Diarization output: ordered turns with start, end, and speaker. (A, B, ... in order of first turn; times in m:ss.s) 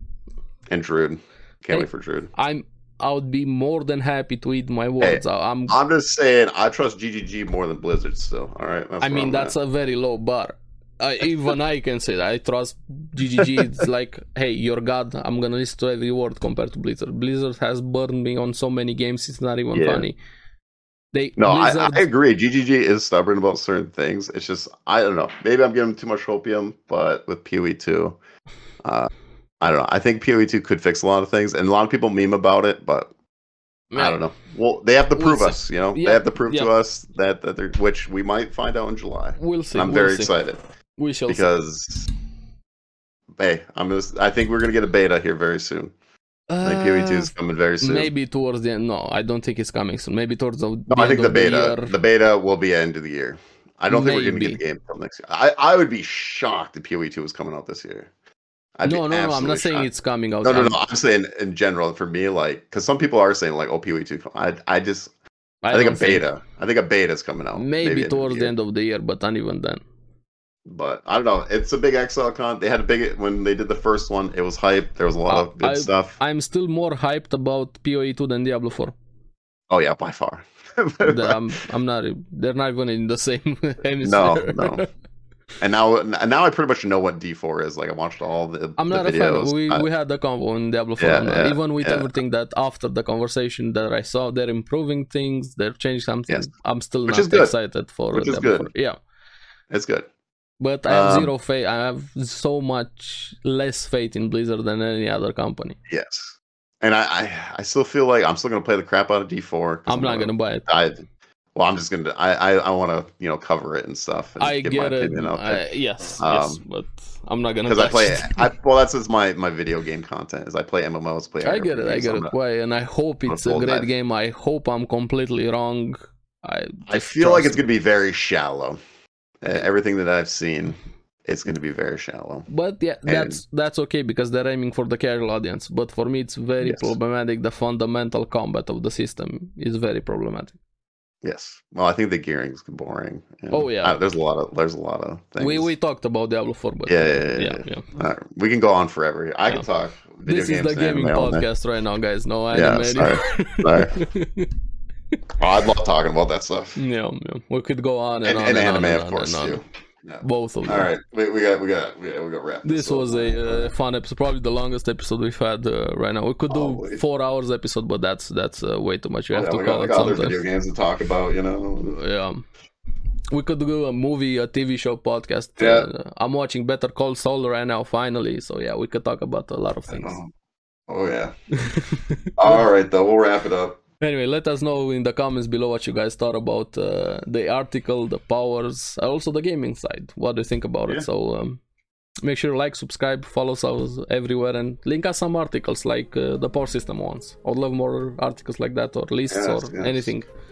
0:00.7-0:02.3 A
0:01.7-0:05.8 B
0:05.0-0:09.6 A
0:09.0-0:20.2 B
0:19.7-0:20.1 A
0:21.1-0:22.0 B
0:21.4-0:28.2 A
0:28.8-0:33.1 A
0:33.9-0:34.2 B
0:34.0-0:40.6 A
0:35.2-0:36.7 B
0:39.4-0:40.3 B
0:41.0-0:41.5 B
0:41.3-0:42.1 A
0:43.4-0:45.9 A
0:46.5-0:52.0 B
0:46.6-0:48.1 A
0:50.9-0:58.1 A
0:53.9-0:54.6 B
0:58.8-0:59.9 A
0:58.8-1:00.8 B
1:00.4-1:05.1 A
1:05.6-1:06.2 B
1:05.7-1:08.5 A
1:07.6-1:09.8 B
1:10.7-1:16.2 A
1:15.3-1:19.0 B
1:19.7-1:21.4 A
1:21.0-1:24.8 B
1:24.0-1:24.8 A
1:25.6-1:29.9 A
1:28.8-1:39.0 B
1:31.0-1:32.1 A
1:37.1-1:37.5 A
1:38.1-1:38.7 A
1:39.7-1:40.1 A
1:40.6-1:45.8 B
1:40.9-1:41.3 A
1:45.9-1:55.6 A
1:49.9-1:50.7 B
1:54.4-1:58.5 B
1:56.2-1:56.6 A
1:57.7-2:02.4 A
2:01.4-2:07.6 B
2:03.3-2:03.9 A
2:06.9-2:08.8 A
2:09.4-2:12.5 A
2:12.5-2:20.6 B
2:13.1-2:13.4 A
2:16.6-2:16.9 A
2:21.2-2:25.7 A
2:23.5-2:24.0 B
2:25.4-2:27.9 B
2:26.9-2:31.5 A
2:30.2-2:34.5 B
2:32.5-2:34.0 A
2:35.4-2:36.8 A
2:36.8-2:39.6 B
2:38.2-2:43.7 A
2:40.2-2:40.9 B
2:42.6-2:50.4 B
2:46.5-2:47.0 A
2:49.3-2:52.0 A
2:51.8-2:52.5 B
2:53.3-3:00.2 B
2:55.6-2:55.9 A
2:59.9-3:00.3 A
3:00.9-3:01.4 A
3:01.6-3:02.6 B
3:02.4-3:03.8 A
3:04.0-3:11.6 B
3:12.2-3:20.3 B
3:19.3-3:20.1 A